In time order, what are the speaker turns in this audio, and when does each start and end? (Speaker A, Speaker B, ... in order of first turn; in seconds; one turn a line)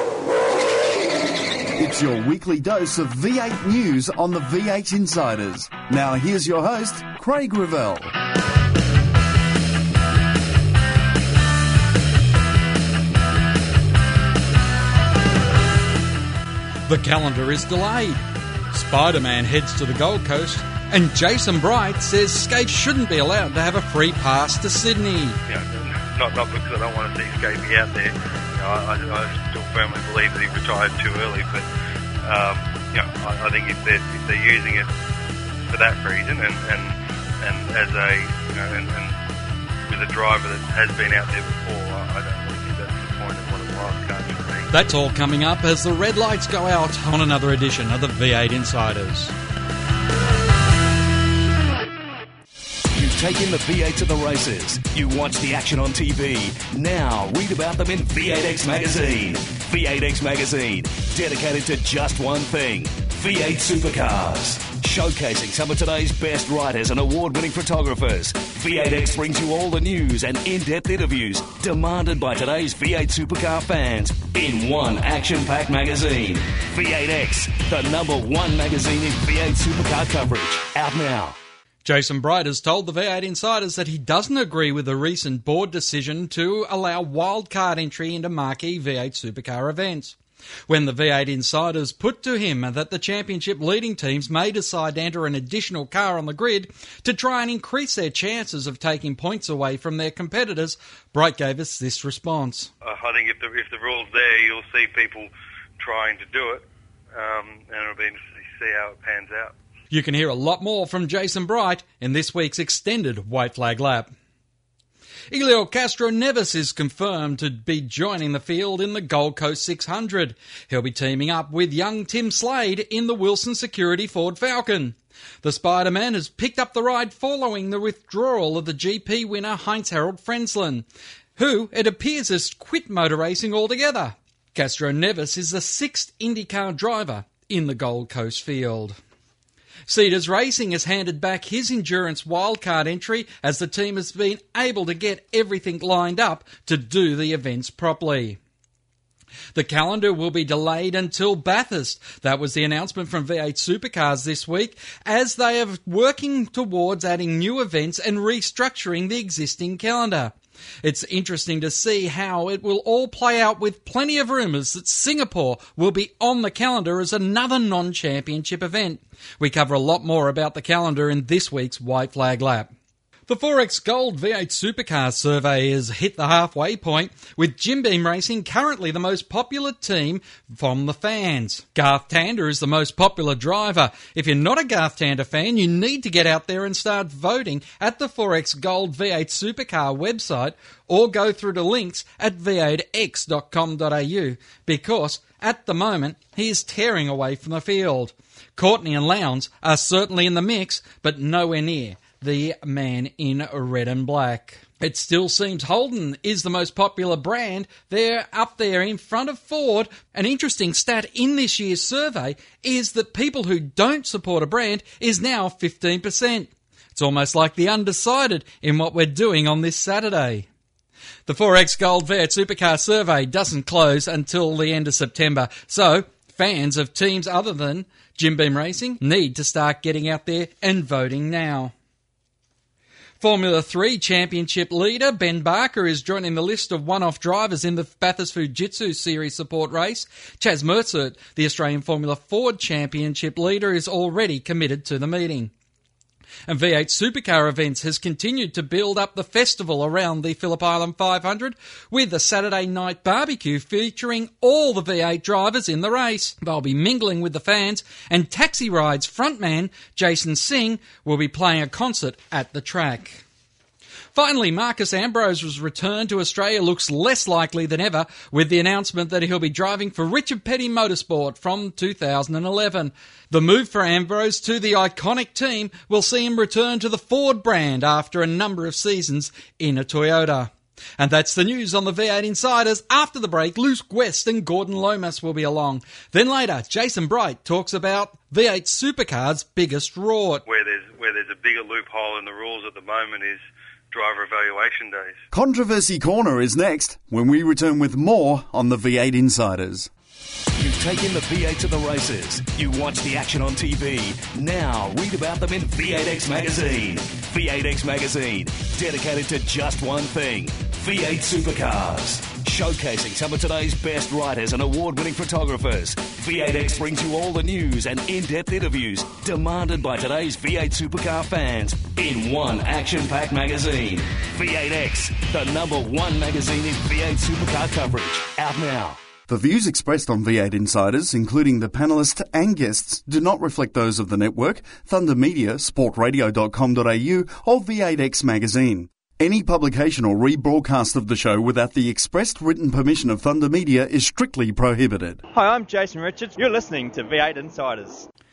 Speaker A: 1.8-8.1
Speaker B: 16.9-25.4
Speaker C: 25.5-31.7
Speaker C: 32.2-34.9
Speaker C: 35.7-39.2
Speaker C: 39.9-44.7
Speaker B: 44.7-49.3
Speaker D: 52.9-81.4
Speaker B: 81.8-102.7
Speaker C: 102.8-109.5
Speaker B: 109.9-114.1
Speaker B: 115.3-139.0
Speaker B: 139.8-148.4
Speaker B: 149.5-172.7
Speaker B: 173.3-220.5
Speaker B: 221.2-231.7
Speaker B: 233.2-245.5
Speaker B: 246.5-263.2
Speaker B: 264.1-290.4
Speaker C: 290.4-295.2
Speaker A: 295.3-299.9
Speaker D: 300.6-329.0
Speaker A: 329.3-345.2
Speaker E: 345.3-348.1